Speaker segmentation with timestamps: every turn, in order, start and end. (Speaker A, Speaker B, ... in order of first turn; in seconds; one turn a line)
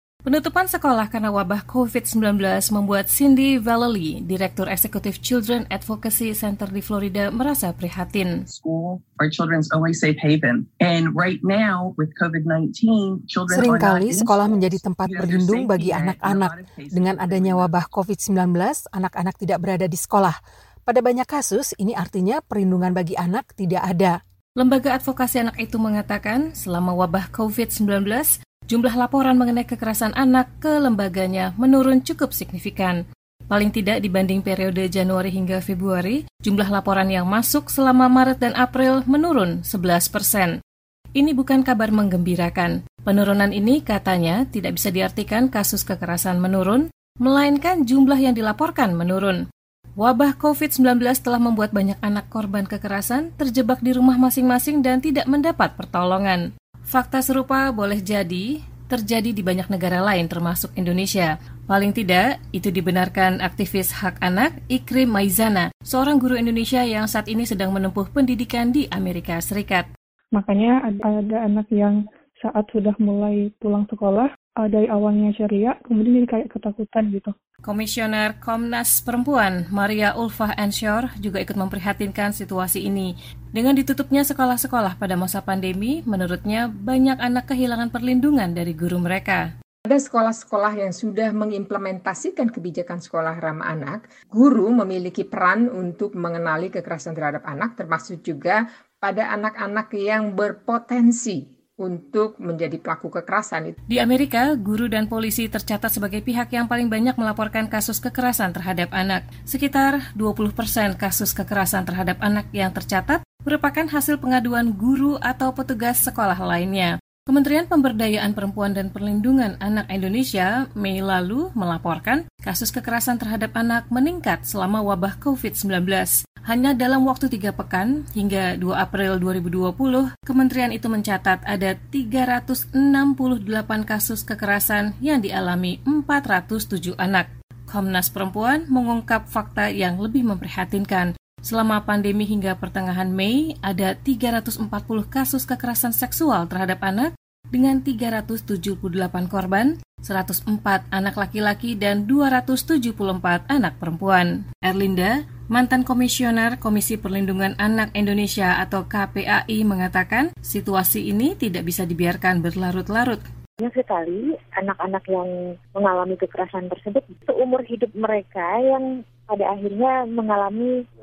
Speaker A: 0.3-8.3
Speaker B: 8.5-17.8
Speaker C: 13.5-20.4
Speaker C: 20.9-24.2
Speaker A: 24.6-33.0
Speaker A: 33.5-40.5
Speaker A: 41.2-49.4
Speaker A: 50.0-69.9
Speaker D: 70.4-77.3
Speaker A: 77.7-89.5
Speaker E: 89.9-103.8
Speaker A: 103.9-163.2
Speaker F: 163.6-170.7